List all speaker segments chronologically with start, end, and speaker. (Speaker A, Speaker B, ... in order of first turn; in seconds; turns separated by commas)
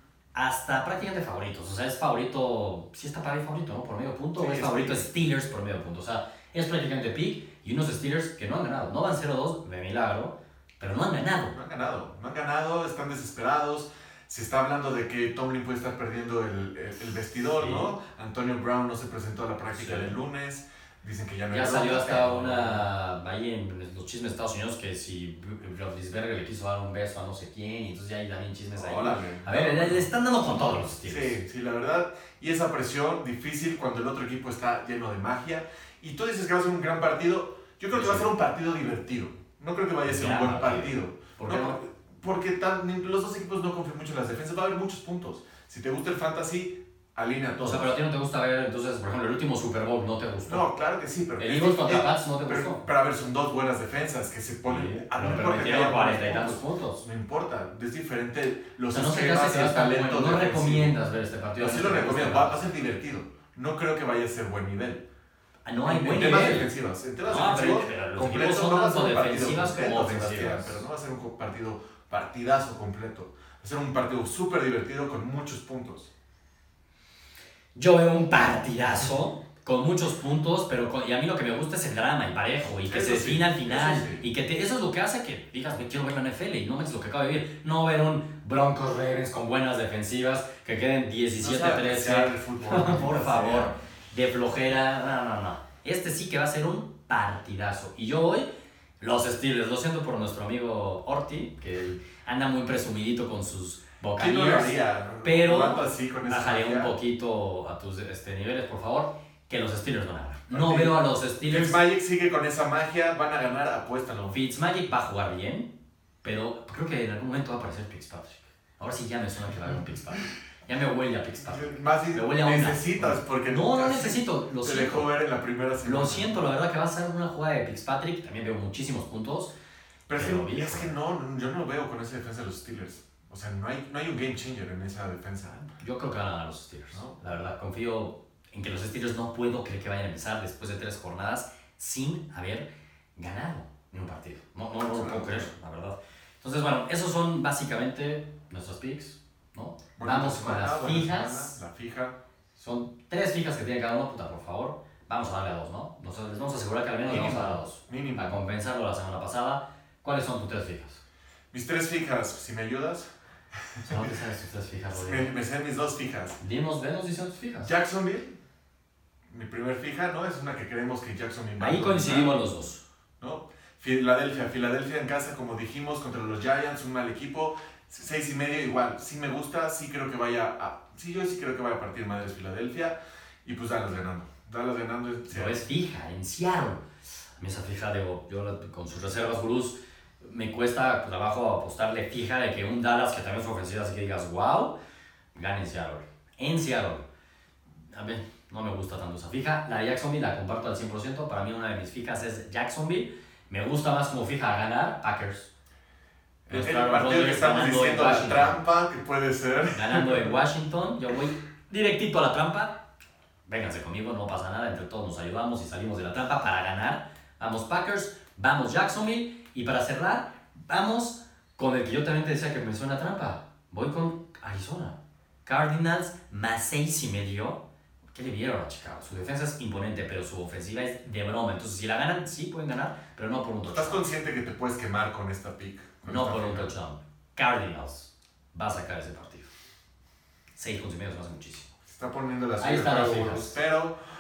Speaker A: 0.3-11.6, Speaker B: 4.4-5.0, Speaker B: 11.5-22.9, Speaker A: 17.6-17.9, Speaker A: 19.7-20.1, Speaker A: 21.5-31.4, Speaker B: 28.8-48.0, Speaker A: 37.9-38.3, Speaker A: 40.0-41.8, Speaker A: 47.6-50.6, Speaker B: 50.5-61.0, Speaker A: 51.4-52.9, Speaker A: 54.6-57.0, Speaker A: 58.9-62.7, Speaker B: 61.6-65.0, Speaker A: 65.7-66.7, Speaker B: 65.8-76.1, Speaker A: 67.2-70.8, Speaker A: 77.8-98.5, Speaker B: 82.8-84.2, Speaker B: 91.4-93.8, Speaker A: 99.0-111.8, Speaker B: 104.2-106.9, Speaker B: 110.5-114.4, Speaker A: 114.3-115.7, Speaker A: 116.2-125.1, Speaker B: 121.5-126.4, Speaker A: 125.8-129.5, Speaker B: 130.1-135.7, Speaker A: 130.1-130.9, Speaker A: 135.8-151.6, Speaker B: 136.9-137.2, Speaker B: 144.8-145.5, Speaker B: 150.0-152.2, Speaker A: 152.6-161.0, Speaker B: 157.1-158.4, Speaker B: 161.5-163.1, Speaker B: 163.7-164.1, Speaker A: 163.9-165.3, Speaker B: 164.9-166.4, Speaker A: 166.4-167.7, Speaker B: 167.7-168.4, Speaker B: 169.3-172.3, Speaker A: 171.6-172.8, Speaker B: 173.2-185.6, Speaker A: 185.3-186.8, Speaker A: 187.4-194.8, Speaker A: 195.3-197.0, Speaker A: 197.9-205.5, Speaker B: 206.5-210.4, Speaker A: 206.5-208.6, Speaker A: 209.7-212.8, Speaker A: 213.5-227.6, Speaker A: 228.1-234.1, Speaker B: 233.7-236.7, Speaker A: 236.1-239.5, Speaker A: 240.6-241.8, Speaker B: 241.9-244.0, Speaker A: 242.6-243.6